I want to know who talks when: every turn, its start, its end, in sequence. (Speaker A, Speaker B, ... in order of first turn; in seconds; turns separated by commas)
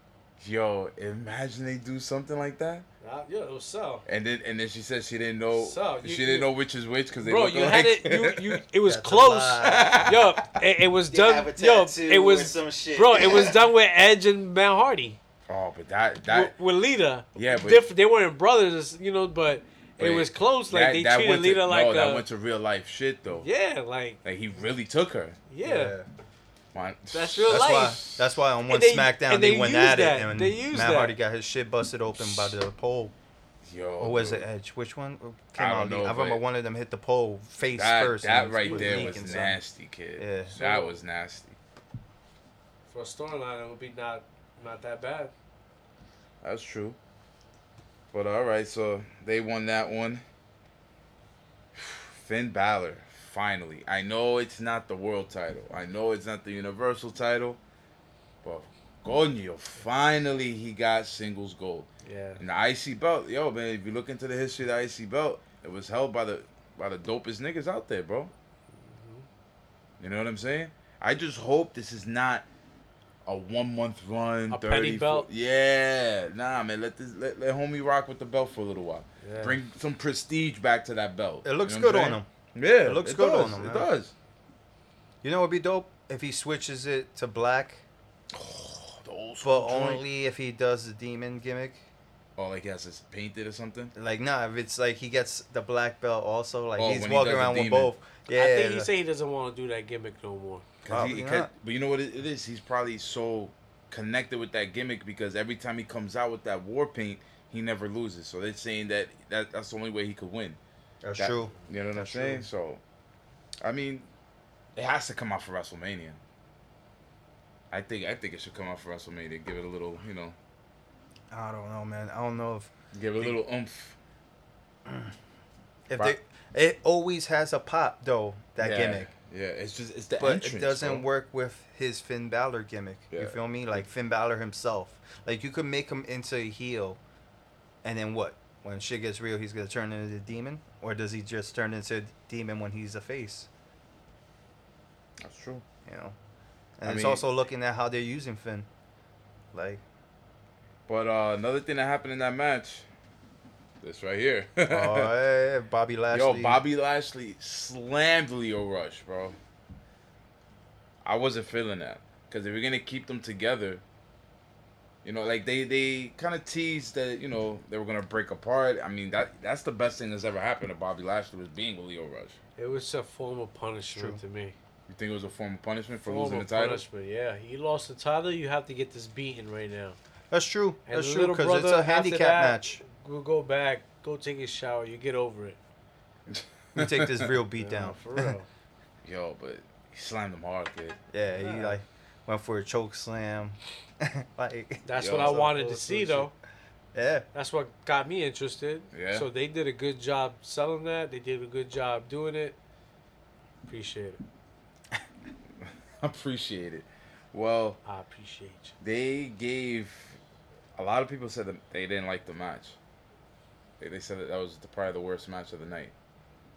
Speaker A: 0.4-2.8, Speaker B: 3.0-4.0, Speaker A: 4.0-8.6, Speaker B: 5.5-6.5, Speaker B: 7.2-15.2, Speaker C: 8.8-10.1, Speaker A: 9.6-10.5, Speaker C: 11.1-13.6, Speaker A: 15.5-16.5, Speaker B: 16.3-22.2, Speaker A: 17.3-17.8, Speaker A: 20.0-23.5, Speaker B: 23.4-24.2, Speaker A: 24.2-25.4, Speaker B: 25.5-25.9, Speaker C: 25.6-26.1, Speaker A: 26.7-28.2, Speaker B: 27.1-28.0, Speaker C: 27.5-33.1, Speaker B: 28.7-31.1, Speaker A: 33.6-34.4, Speaker C: 34.0-39.6, Speaker A: 35.5-36.4, Speaker A: 37.7-41.6, Speaker B: 38.6-39.5, Speaker C: 40.2-40.5, Speaker B: 40.5-41.0, Speaker B: 42.9-45.3, Speaker A: 46.4-47.0, Speaker A: 48.1-50.2, Speaker A: 51.7-57.6, Speaker A: 58.4-68.3, Speaker B: 62.0-62.4, Speaker B: 68.8-69.2, Speaker A: 70.0-72.4, Speaker A: 73.2-84.1, Speaker B: 74.5-75.3, Speaker B: 79.2-79.6, Speaker C: 81.4-82.3, Speaker C: 82.8-83.9, Speaker C: 85.2-87.8, Speaker A: 88.3-90.0, Speaker C: 89.4-91.8, Speaker A: 92.4-93.9, Speaker C: 93.9-98.9, Speaker A: 96.8-97.9, Speaker B: 98.3-100.6, Speaker A: 100.8-110.6, Speaker C: 100.9-101.5, Speaker C: 111.0-112.5, Speaker A: 111.2-112.8, Speaker A: 113.6-114.1, Speaker A: 114.8-116.2, Speaker A: 117.7-120.3, Speaker C: 121.3-123.4, Speaker A: 122.9-124.0, Speaker C: 124.8-125.1, Speaker C: 125.9-129.1, Speaker A: 128.6-131.1, Speaker C: 130.2-137.0, Speaker A: 133.1-133.4, Speaker C: 137.8-143.5, Speaker A: 145.2-145.6, Speaker C: 145.8-146.2, Speaker C: 146.8-148.7, Speaker A: 146.8-147.2, Speaker C: 149.5-149.8, Speaker A: 150.9-152.8, Speaker A: 153.8-155.1, Speaker C: 154.7-156.6, Speaker A: 156.1-159.4, Speaker A: 161.0-163.8, Speaker A: 165.0-172.4, Speaker B: 172.6-174.6, Speaker C: 173.9-174.2, Speaker A: 174.9-176.8, Speaker B: 176.1-180.0, Speaker C: 180.3-182.8, Speaker B: 180.9-185.6, Speaker A: 186.3-187.3, Speaker C: 186.7-188.3, Speaker B: 187.6-188.5, Speaker A: 189.0-191.0, Speaker C: 191.1-196.3, Speaker B: 191.4-191.7, Speaker B: 194.8-196.3, Speaker A: 195.0-195.5, Speaker C: 196.9-197.2, Speaker B: 197.3-202.6, Speaker A: 198.9-199.3, Speaker B: 203.7-204.2, Speaker A: 205.6-207.8, Speaker B: 207.8-208.7, Speaker A: 208.8-210.2, Speaker A: 210.8-212.8, Speaker A: 213.8-215.9